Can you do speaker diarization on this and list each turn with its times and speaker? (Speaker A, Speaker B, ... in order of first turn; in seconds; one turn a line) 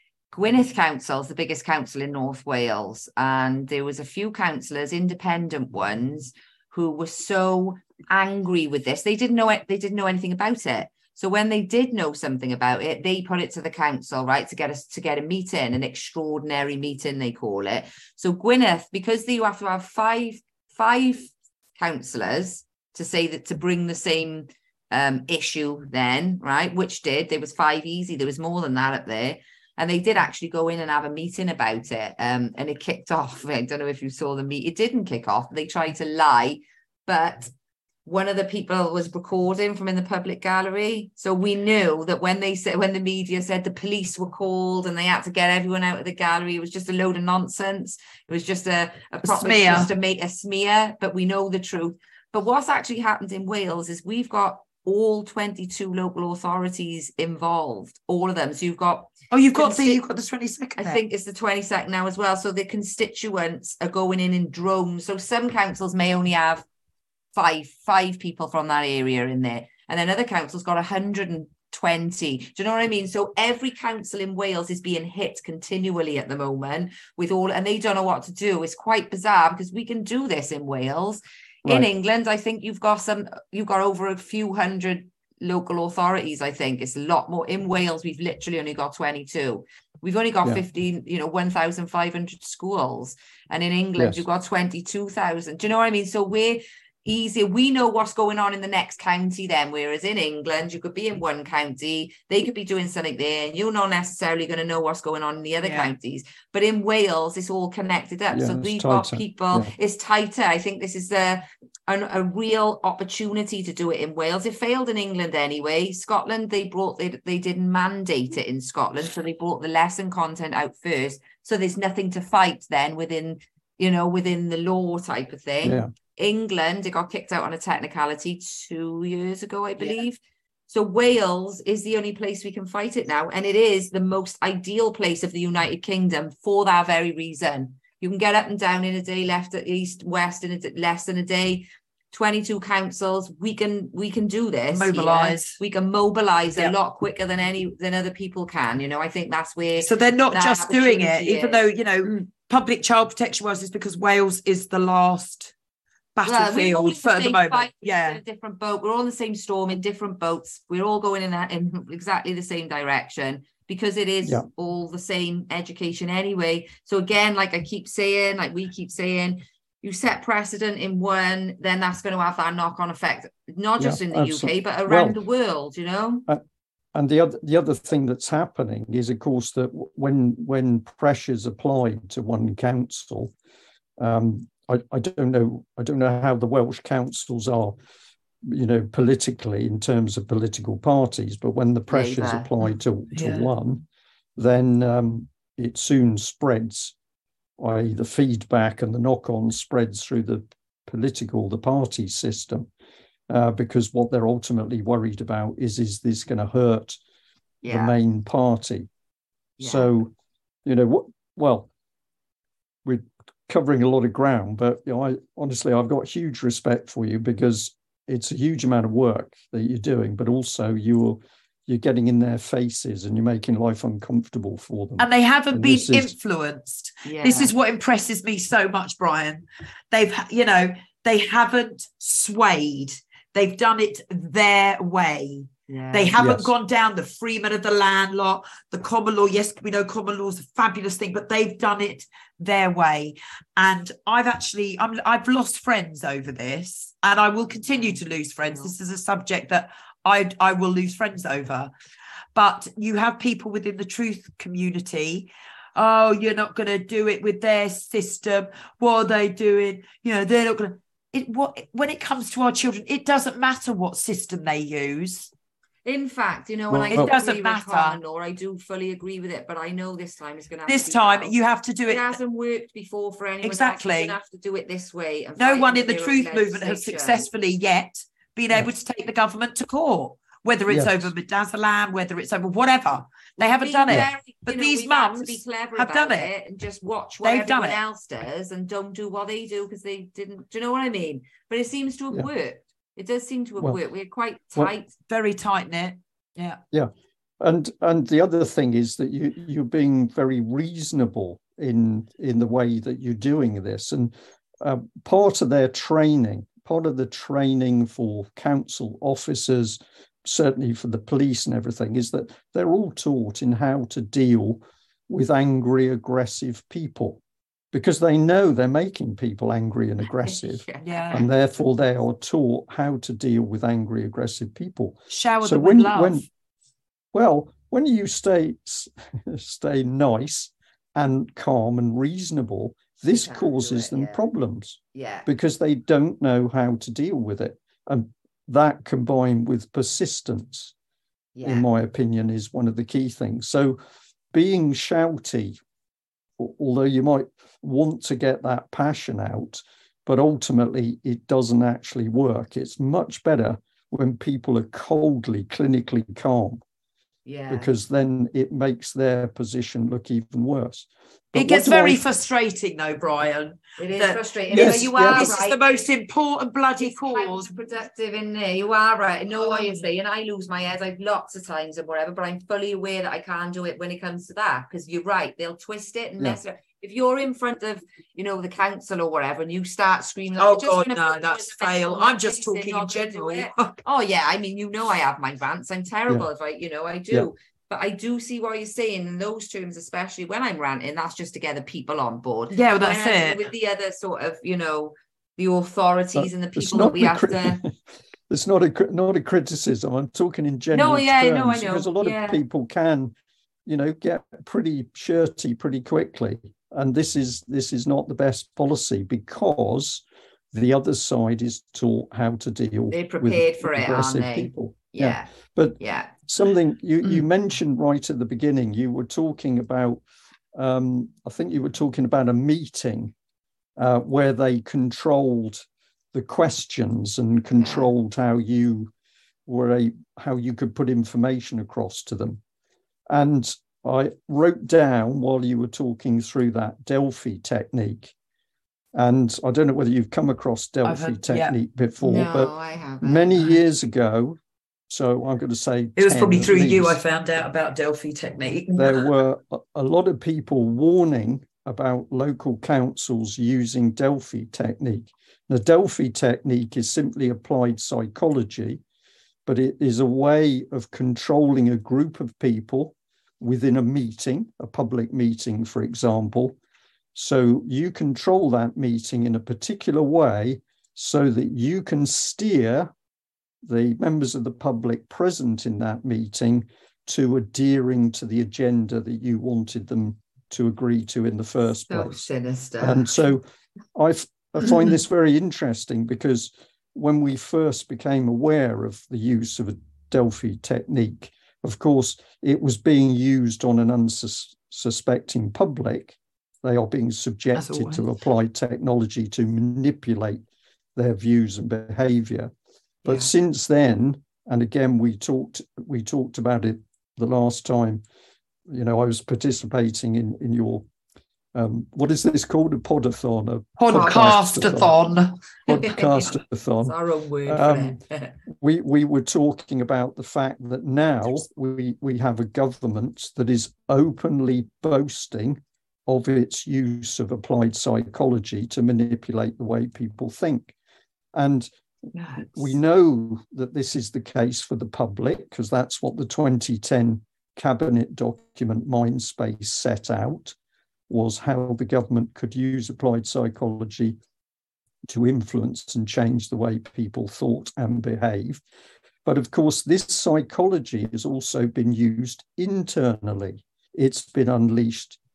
Speaker A: 0.3-37.5
Speaker A: 38.1-60.0
Speaker B: 49.2-49.9
Speaker B: 59.3-61.0
Speaker A: 60.8-66.7
Speaker A: 67.3-152.2
Speaker B: 105.6-105.9
Speaker C: 108.3-109.7
Speaker C: 125.6-125.9
Speaker B: 144.7-145.6
Speaker B: 149.8-155.5
Speaker B: 156.2-158.2
Speaker A: 156.3-176.3
Speaker C: 173.8-175.2
Speaker C: 176.9-183.3
Speaker C: 184.0-187.8
Speaker C: 188.5-193.9
Speaker A: 191.9-192.5
Speaker B: 193.1-193.5
Speaker C: 194.4-196.9
Speaker C: 197.6-202.7
Speaker C: 203.3-207.0
Speaker A: 207.6-207.9
Speaker C: 207.7-208.9
Speaker A: 209.6-209.9
Speaker C: 209.6-210.1
Speaker C: 210.7-211.7
Speaker C: 212.8-226.1
Speaker B: 225.0-251.7
Speaker A: 227.1-227.5
Speaker A: 235.7-236.2
Speaker C: 236.2-236.5
Speaker A: 247.7-248.7
Speaker B: 252.3-265.3
Speaker A: 265.9-271.3
Speaker C: 266.7-267.1
Speaker B: 266.9-268.0
Speaker B: 270.7-272.2
Speaker A: 271.9-277.2
Speaker B: 273.4-274.2
Speaker B: 275.4-286.3
Speaker C: 280.7-281.1
Speaker A: 283.4-294.9
Speaker B: 287.2-287.8
Speaker B: 295.1-296.6
Speaker C: 296.7-317.2
Speaker C: 317.7-326.2
Speaker A: 320.2-320.8
Speaker B: 320.8-321.3
Speaker B: 325.1-326.3
Speaker C: 327.1-340.7
Speaker A: 333.1-334.2
Speaker A: 334.9-335.3
Speaker A: 341.4-341.7
Speaker C: 341.4-343.8
Speaker C: 344.3-345.6
Speaker C: 346.4-356.6
Speaker A: 357.3-357.7
Speaker C: 357.5-362.0
Speaker B: 361.4-367.6
Speaker A: 363.8-365.6
Speaker C: 364.5-365.4
Speaker A: 366.8-397.6
Speaker B: 380.4-383.8
Speaker B: 392.5-393.4
Speaker C: 396.2-397.7
Speaker C: 398.3-403.1
Speaker A: 400.7-402.4
Speaker C: 403.7-420.0
Speaker A: 412.9-416.1
Speaker C: 420.6-423.1
Speaker C: 423.8-428.9
Speaker A: 427.6-427.9
Speaker C: 429.5-432.4
Speaker C: 433.1-438.1
Speaker C: 438.9-444.4
Speaker B: 440.9-441.6
Speaker A: 442.0-443.6
Speaker C: 444.9-447.0
Speaker B: 446.0-449.1
Speaker C: 448.7-458.8
Speaker C: 459.5-466.6
Speaker C: 467.1-472.9
Speaker C: 473.6-482.2
Speaker A: 481.9-483.3
Speaker C: 482.8-483.4
Speaker C: 483.9-500.4
Speaker B: 497.6-498.1
Speaker C: 501.0-502.5
Speaker A: 503.1-503.3
Speaker C: 503.1-508.0
Speaker C: 508.7-510.9
Speaker C: 511.5-515.0
Speaker B: 513.8-515.4
Speaker C: 515.7-530.7
Speaker A: 515.7-516.3
Speaker A: 516.9-518.4
Speaker C: 531.3-531.7
Speaker A: 532.1-532.7
Speaker C: 532.5-540.6
Speaker C: 541.1-544.2
Speaker C: 545.1-548.6
Speaker C: 549.2-555.2